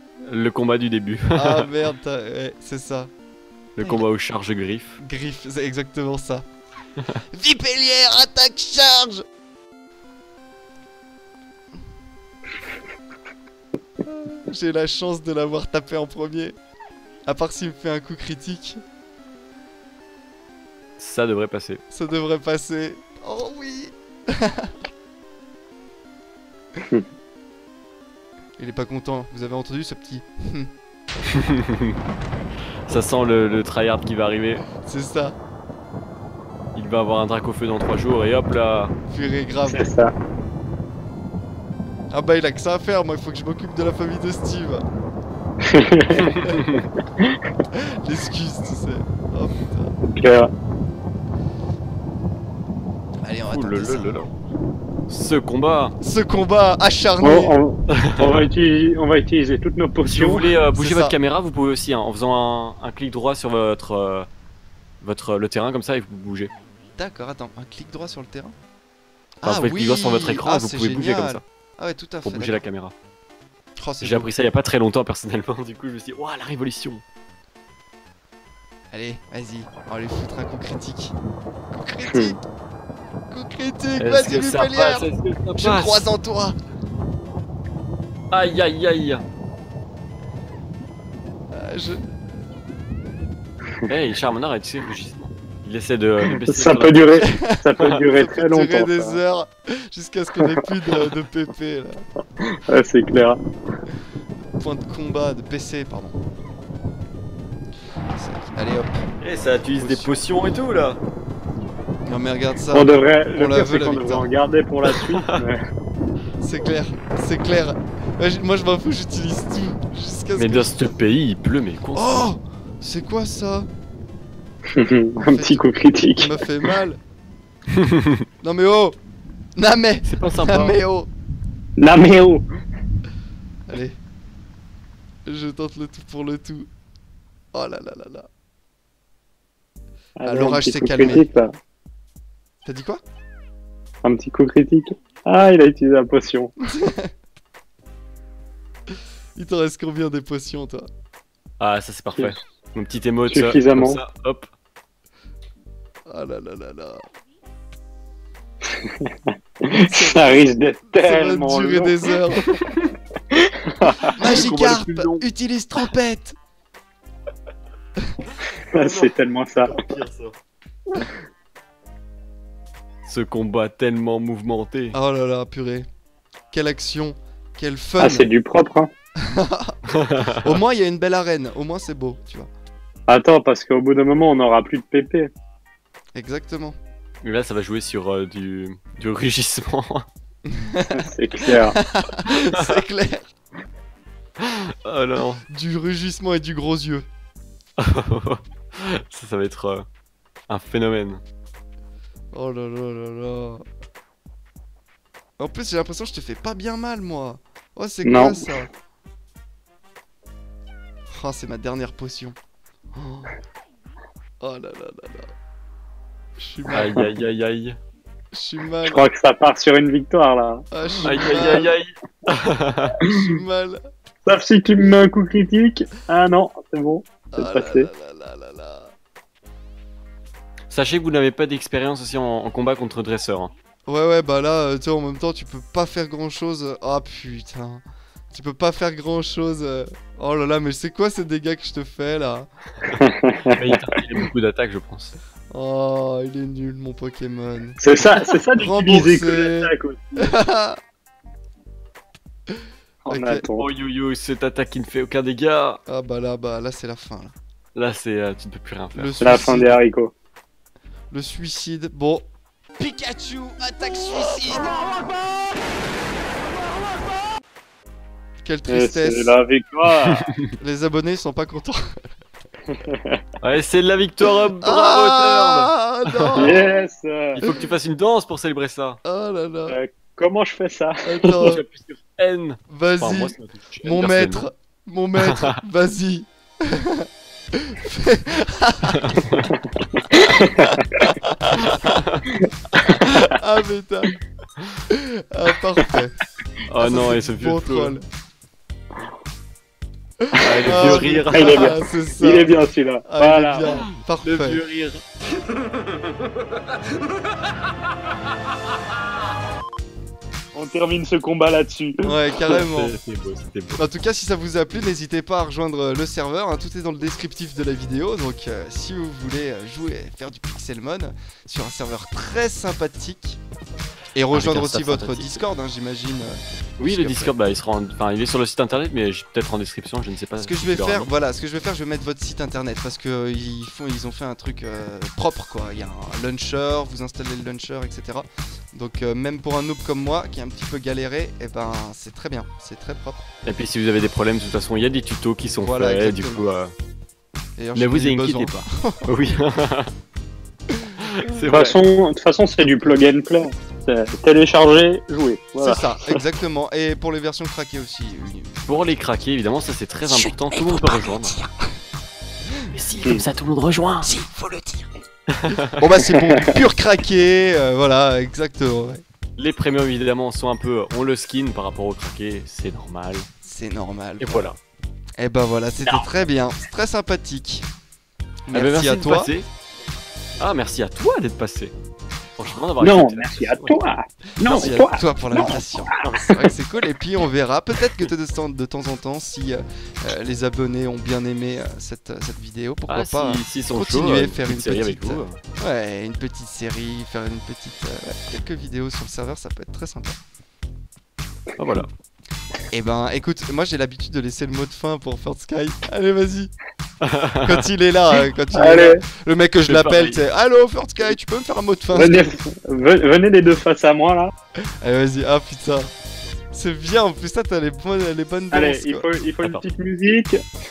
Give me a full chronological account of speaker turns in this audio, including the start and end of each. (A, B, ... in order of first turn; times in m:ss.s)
0:00.2-0:01.7 A
0:01.3-0:03.1 B
0:03.8-0:05.0 A
0:03.8-0:04.0 B
0:05.0-0:06.4 B
0:07.3-0:09.2 B
0:14.0-0:16.6 B
0:17.2-0:18.8 B
0:21.0-0:21.8 A
0:21.9-0:24.7 B
0:28.6-0:30.7 B
0:31.3-0:32.0 A
0:32.9-0:34.6 A
0:34.8-0:35.4 B
0:36.7-0:38.9 A
0:39.1-0:39.9 B
0:39.6-0:40.1 C
0:42.1-0:44.8 B
0:45.6-0:46.3 C
0:46.3-0:46.8 A
0:46.4-0:46.6 B
0:47.7-0:50.0 B
0:50.0-0:50.5 C
0:53.2-0:54.2 B
0:53.5-0:54.3 A
0:55.1-0:56.0 A
0:56.0-0:57.6 B
0:57.2-1:00.5 C
0:58.0-0:58.5 A
1:00.0-1:04.3 A
1:00.7-1:01.2 B
1:05.0-1:06.5 A
1:07.0-1:08.5 B
1:09.4-1:12.6 B
1:09.4-1:11.4 A
1:12.2-1:12.9 A
1:13.8-1:14.3 B
1:14.0-1:17.0 A
1:18.9-1:21.1 B
1:21.7-1:22.4 B
1:22.0-1:22.4 C
1:23.3-1:26.6 B
1:24.0-1:26.0 A
1:28.3-1:29.2 A
1:31.5-1:32.0 B
1:33.9-1:38.0 A
1:36.2-1:39.2 C
1:37.2-1:42.0 B
1:40.4-1:41.0 C
1:42.4-1:43.4 C
1:44.6-1:46.2 B
1:48.1-1:49.0 B
1:49.2-1:51.0 A
1:49.8-1:50.1 B
1:52.0-1:54.3 B
1:52.7-1:55.6 C
1:56.4-2:00.8 B
2:00.4-2:02.3 A
2:01.9-2:03.7 B
2:04.7-2:06.7 C
2:05.3-2:05.6 B
2:06.2-2:07.0 B
2:07.8-2:08.2 A
2:08.4-2:09.0 B
2:09.6-2:11.1 B
2:10.0-2:10.8 A
2:11.8-2:12.4 C
2:13.7-2:14.0 B
2:15.2-2:16.7 B
2:17.5-2:18.3 B
2:20.2-2:21.5 C
2:20.2-2:21.3 B
2:22.6-2:23.0 B
2:24.0-2:26.5 C
2:26.6-2:27.1 B
2:29.4-2:30.9 B
2:31.6-2:34.5 A
2:33.3-2:34.0 C
2:36.1-2:37.0 B
2:38.6-2:42.1 C
2:39.7-2:40.5 B
2:41.0-2:42.5 B
2:42.6-2:42.9 A
2:43.3-2:44.1 C
2:44.1-2:46.4 B
2:44.2-2:45.2 A
2:48.7-2:49.7 C
2:48.7-2:50.3 A
2:53.0-2:55.0 A
2:54.9-2:55.9 B
2:56.5-2:58.3 B
2:58.0-2:58.9 C
2:59.2-2:59.7 B
3:00.0-3:00.4 A
3:00.3-3:02.5 B
3:03.1-3:05.3 C
3:06.1-3:06.8 B
3:07.2-3:10.0 A
3:10.5-3:13.3 B
3:10.9-3:11.8 C
3:14.4-3:15.4 A
3:15.5-3:17.0 B
3:17.8-3:19.9 A
3:20.5-3:21.2 A
3:22.3-3:23.6 B
3:25.4-3:28.7 B
3:28.0-3:28.6 C
3:31.1-3:32.4 B
3:32.9-3:33.3 B
3:34.4-3:35.3 B
3:36.4-3:37.0 B
3:36.7-3:37.8 A
3:38.3-3:39.1 B
3:38.8-3:40.6 C
3:40.7-3:41.8 B
3:41.0-3:43.0 A
3:43.0-3:43.8 B
3:44.2-3:47.9 C
3:47.3-3:48.9 B
3:50.7-3:53.5 A
3:53.8-4:02.5 B
4:03.0-4:03.7 C
4:03.5-4:05.2 A
4:05.5-4:07.8 B
4:07.8-4:10.3 C
4:08.5-4:10.8 B
4:13.0-4:13.6 C
4:13.1-4:13.4 B
4:13.6-4:15.8 A
4:15.9-4:17.3 B
4:17.7-4:19.5 A
4:18.9-4:19.8 B
4:19.2-4:20.1 C
4:21.1-4:22.2 B
4:22.8-4:24.8 B
4:28.4-4:29.4 B
4:28.7-4:30.3 C
4:30.2-4:30.5 A
4:30.6-4:31.8 B
4:32.7-4:33.2 C
4:33.4-4:36.6 A
4:34.6-4:36.7 B
4:36.4-4:37.4 C
4:37.3-4:39.0 A
4:39.0-4:39.8 B
4:39.7-4:41.6 C
4:41.0-4:41.6 B
4:41.4-4:44.5 A
4:42.7-4:49.2 B
4:45.2-4:45.6 A
4:48.9-4:49.5 A
4:49.5-4:51.1 C
4:51.2-4:52.0 B
4:51.6-4:52.3 A
4:52.8-4:54.1 B
4:54.9-4:56.1 B
4:56.6-4:57.9 A
4:56.8-4:58.0 B
5:00.3-5:04.6 B
5:00.4-5:01.8 A
5:00.6-5:03.6 C
5:03.7-5:05.0 A
5:10.5-5:12.1 C
5:12.0-5:13.0 B
5:12.5-5:13.8 A
5:13.8-5:23.4 B
5:24.1-5:27.3 B
5:24.3-5:25.4 A
5:26.8-5:31.1 A
5:30.4-5:43.3 B
5:43.4-5:46.7 A
5:45.6-5:46.5 B
5:47.6-5:49.1 B
5:47.7-5:49.9 A
5:51.0-5:51.8 A
5:51.5-5:56.2 C
5:52.6-5:53.0 B
5:55.6-5:58.6 B
5:58.7-6:01.4 A
6:00.2-6:01.5 B
6:02.7-6:04.1 A
6:04.0-6:04.9 B
6:05.3-6:05.7 A
6:05.7-6:09.0 B
6:06.0-6:06.6 C
6:09.4-6:13.3 A
6:13.4-6:14.5 B
6:14.2-6:14.6 A
6:15.2-6:17.7 B
6:18.5-6:19.3 B
6:18.5-6:19.5 A
6:20.4-6:21.7 A
6:22.4-6:23.8 A
6:22.8-6:26.4 C
6:24.4-6:40.2 B
6:24.5-6:24.7 A
6:32.9-6:35.4 A
6:41.6-6:41.9 A
6:42.7-6:46.5 B
6:47.0-6:47.5 A
6:47.4-6:52.3 B
6:48.5-6:49.0 C
6:49.6-6:50.2 A
6:51.9-6:54.3 C
6:54.8-6:55.9 B
6:56.5-6:59.1 B
6:58.5-7:00.4 C